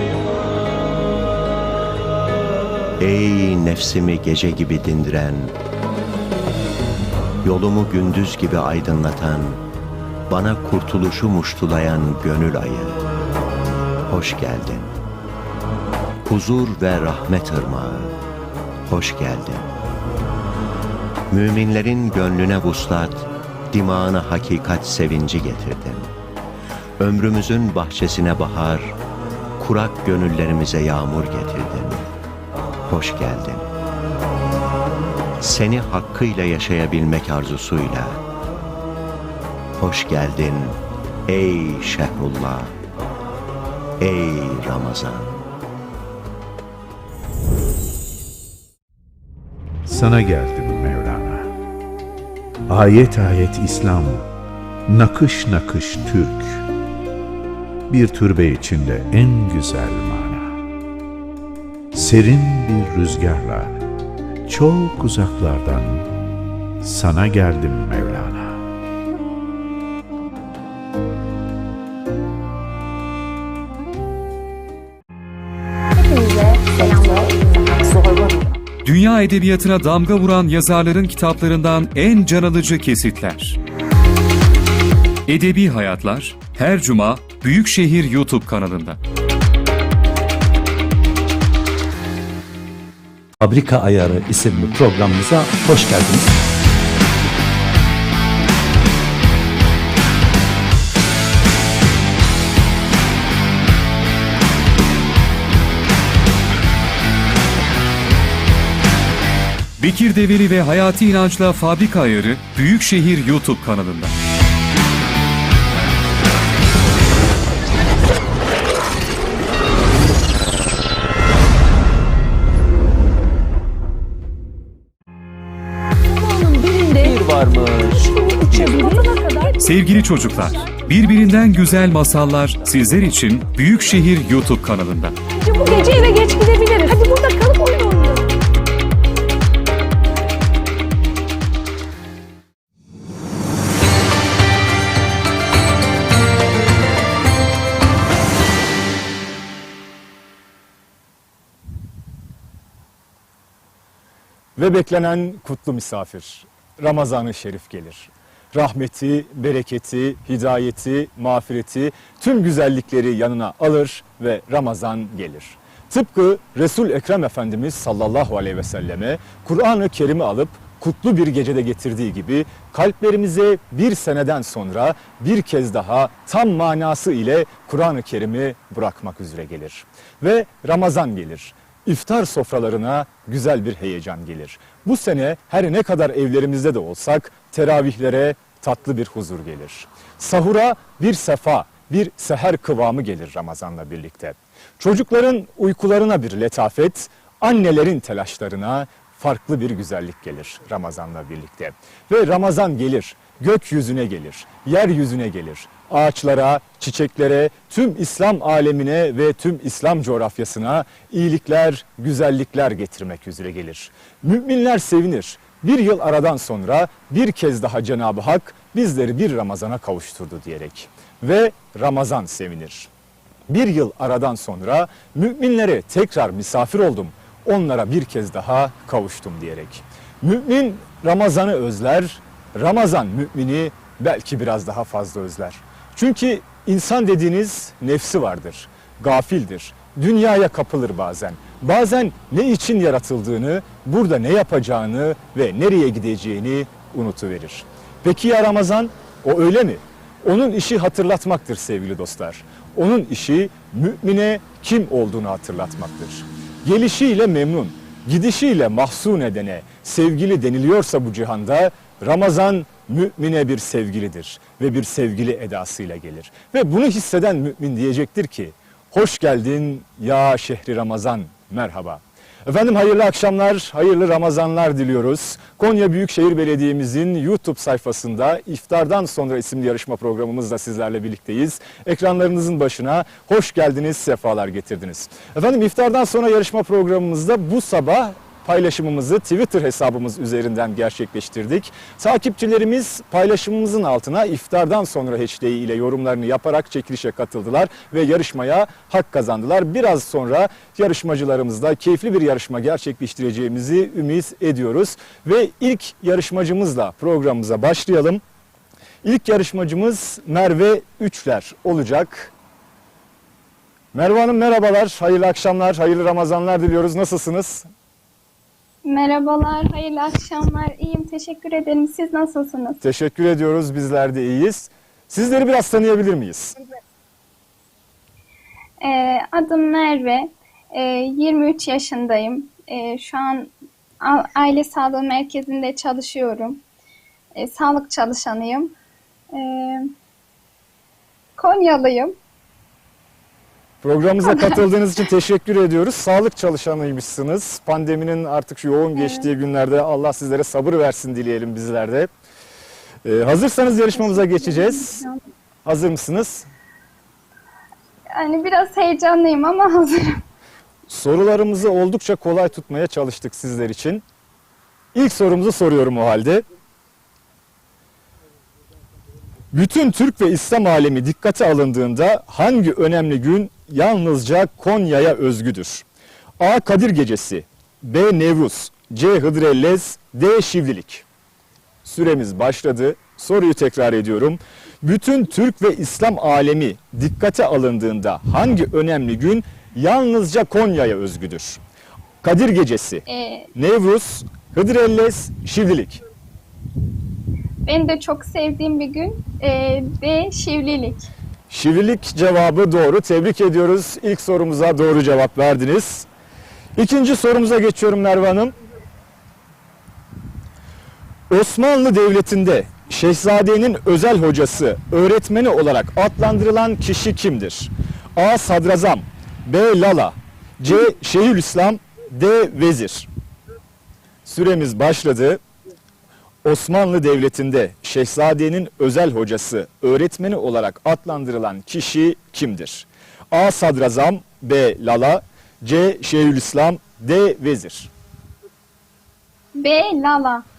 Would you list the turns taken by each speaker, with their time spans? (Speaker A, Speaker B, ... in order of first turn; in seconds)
Speaker A: 3.0-5.6, 7.4-9.6, 10.3-13.0, 14.1-14.9, 16.2-18.2, 18.9-19.7, 21.3-26.1, 27.0-29.0, 29.6-32.1, 32.9-33.7, 35.4-38.2, 39.8-42.8, 44.0-45.4
Speaker B: 49.9-51.5, 52.7-54.3, 54.9-56.7, 57.9-60.6, 61.9-63.8, 64.5-66.1, 66.8-68.6
Speaker C: 75.9-78.6, 126.1-127.2, 127.9-131.1, 135.3-138.2
Speaker D: 78.8-83.6, 85.3-89.0, 109.8-114.1, 129.6-135.2
Speaker E: 93.4-96.3, 127.0-128.9
Speaker F: 154.6-222.9, 223.5-308.2, 309.0-312.3, 313.9-317.7, 322.8-326.5, 343.8-352.1, 353.1-355.0, 355.6-356.5, 360.9-364.0, 364.9-366.4, 369.5-375.9, 376.4-381.1, 381.8-391.6, 392.2-393.0, 393.6-396.0, 401.5-406.1, 406.8-408.5, 411.3-423.1, 424.2-425.4, 426.4-437.9
Speaker G: 318.9-322.8, 328.8-336.6, 337.4-338.7, 339.3-339.9, 341.4-342.1, 349.0-349.3, 353.9-355.2, 358.1-360.2, 393.1-393.5, 397.6-401.1, 439.6-440.4